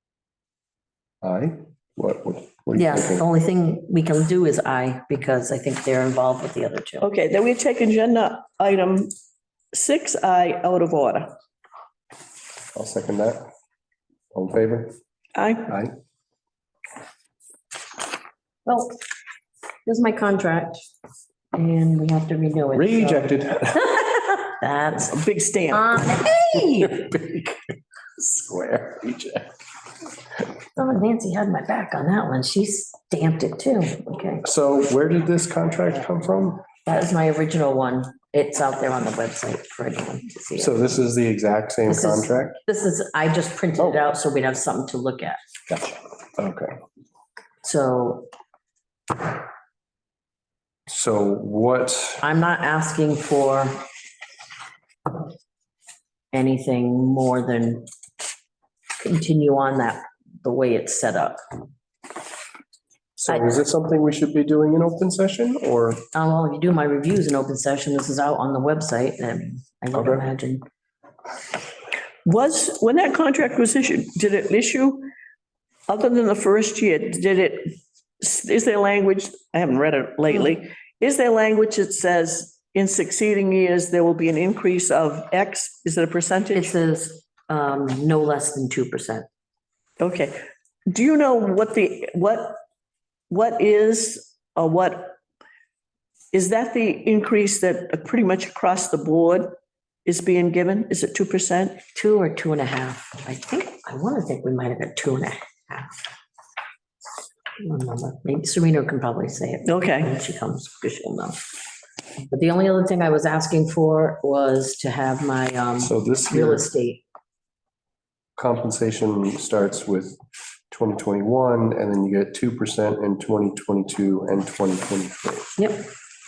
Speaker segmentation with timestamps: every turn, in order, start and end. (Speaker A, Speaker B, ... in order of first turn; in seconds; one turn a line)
Speaker A: 1.2-3.2
Speaker B: 2.7-7.1
Speaker C: 7.0-9.1
Speaker C: 9.7-11.3
Speaker A: 12.7-13.5
Speaker A: 14.3-14.9
Speaker C: 15.3-15.7
Speaker A: 15.7-15.9
Speaker B: 18.6-19.0
Speaker B: 19.9-20.8
Speaker B: 21.5-23.4
Speaker A: 22.7-24.2
Speaker B: 24.4-25.2
Speaker C: 25.1-26.0
Speaker B: 25.7-27.0
Speaker A: 26.5-27.5
Speaker A: 28.2-29.5
Speaker B: 30.7-34.4
Speaker A: 34.4-36.6
Speaker B: 36.9-40.9
Speaker A: 40.6-42.6
Speaker B: 41.9-45.4
Speaker A: 45.7-46.7
Speaker B: 47.6-48.3
Speaker A: 50.9-52.2
Speaker B: 52.2-53.8
Speaker B: 56.3-57.9
Speaker B: 59.0-61.4
Speaker A: 63.1-66.0
Speaker B: 63.3-63.6
Speaker B: 66.1-70.6
Speaker A: 69.9-70.2
Speaker C: 72.2-75.1
Speaker C: 75.9-86.7
Speaker B: 86.5-89.2
Speaker C: 90.0-92.6
Speaker C: 93.3-95.2
Speaker C: 96.3-99.5
Speaker C: 100.0-101.8
Speaker B: 101.9-105.9
Speaker B: 107.6-111.4
Speaker C: 109.6-110.1
Speaker B: 112.2-117.0
Speaker A: 115.8-116.6
Speaker A: 118.3-120.2
Speaker A: 120.7-125.5
Speaker B: 125.6-125.9